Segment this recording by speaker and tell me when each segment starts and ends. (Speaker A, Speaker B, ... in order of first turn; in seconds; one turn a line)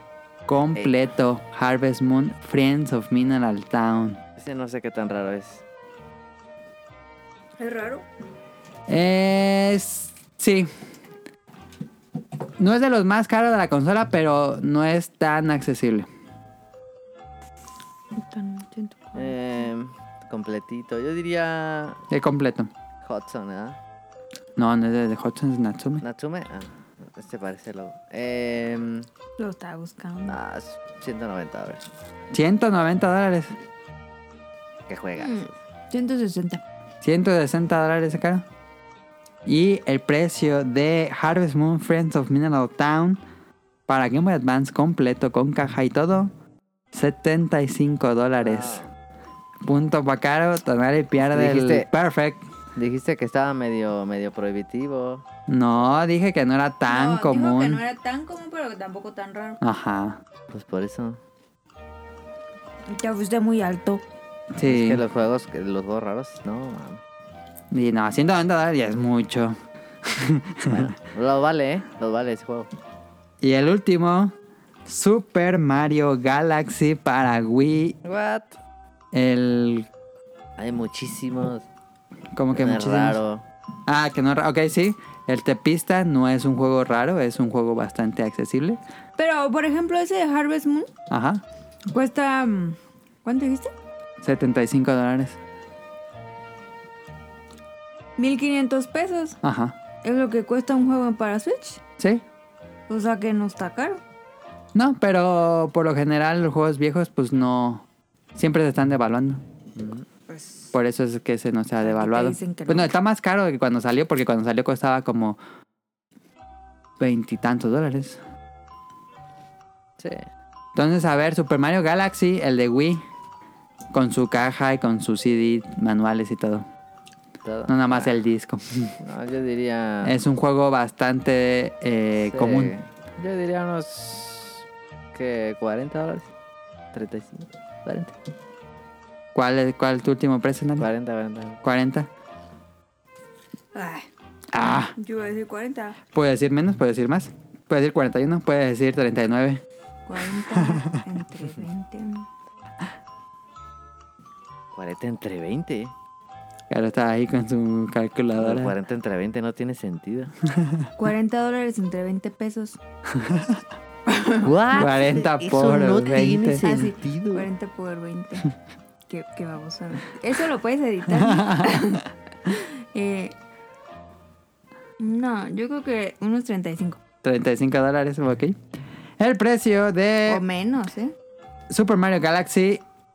Speaker A: 0.5-4.2
Speaker B: 0.8-1.0
Speaker B: 4.4-5.6
Speaker C: 7.6-8.1
Speaker A: 8.9-10.7
Speaker A: 12.6-16.1
Speaker C: 18.2-19.4
Speaker B: 19.1-22.0
Speaker A: 22.1-22.7
Speaker B: 23.0-23.8
Speaker A: 24.6-26.0
Speaker B: 26.0-29.1
Speaker C: 29.4-30.4
Speaker B: 30.3-31.8
Speaker A: 32.3-33.5
Speaker B: 34.9-35.5
Speaker C: 35.2-36.6
Speaker A: 37.0-38.4
Speaker A: 39.5-43.2
Speaker A: 43.9-46.3
Speaker A: 46.9-48.8
Speaker B: 48.4-48.9
Speaker A: 49.6-52.4
Speaker B: 51.2-51.9
Speaker B: 52.8-55.2
Speaker A: 55.5-57.8
Speaker C: 56.9-59.6
Speaker A: 59.6-60.2
Speaker B: 60.5-61.2
Speaker C: 62.9-64.0
Speaker A: 64.5-65.0
Speaker B: 64.6-67.0
Speaker A: 67.7-70.9
Speaker B: 70.7-72.7
Speaker A: 73.4-74.3
Speaker A: 74.8-78.0
Speaker B: 78.0-78.6
Speaker A: 79.1-79.9
Speaker B: 80.6-81.7
Speaker A: 82.4-83.2
Speaker B: 82.5-83.4
Speaker A: 83.9-88.8
Speaker C: 89.2-90.9
Speaker A: 91.1-91.4
Speaker C: 91.9-93.7
Speaker A: 94.2-95.4
Speaker C: 98.2-99.4
Speaker A: 99.4-99.8
Speaker C: 100.0-101.8
Speaker C: 102.9-104.0
Speaker A: 104.7-109.4
Speaker B: 109.8-110.1
Speaker C: 110.3-110.7
Speaker A: 110.7-115.4
Speaker C: 111.8-112.9
Speaker A: 117.0-118.2
Speaker A: 120.8-123.0
Speaker A: 123.9-126.7
Speaker B: 127.4-128.1
Speaker A: 127.7-128.9
Speaker B: 129.0-130.2
Speaker A: 130.0-132.8
Speaker B: 132.2-134.6
Speaker B: 135.1-136.3
Speaker B: 136.9-138.1
Speaker A: 139.3-140.9
Speaker B: 140.8-141.6
Speaker A: 141.6-142.1
Speaker C: 143.8-144.1
Speaker A: 144.5-144.9
Speaker C: 145.0-146.0
Speaker A: 146.1-149.6
Speaker C: 150.1-152.3
Speaker A: 150.5-151.0
Speaker B: 154.7-155.9
Speaker A: 156.7-158.7
Speaker B: 158.4-160.3
Speaker A: 160.6-160.8
Speaker C: 161.0-162.8
Speaker A: 163.1-163.6
Speaker C: 164.1-164.4
Speaker B: 164.4-167.5
Speaker A: 164.7-166.8
Speaker C: 166.6-168.5
Speaker C: 169.1-173.3
Speaker A: 171.2-171.8
Speaker C: 175.0-177.0
Speaker A: 177.2-178.6
Speaker A: 179.2-180.4
Speaker C: 180.3-181.1
Speaker A: 181.7-182.8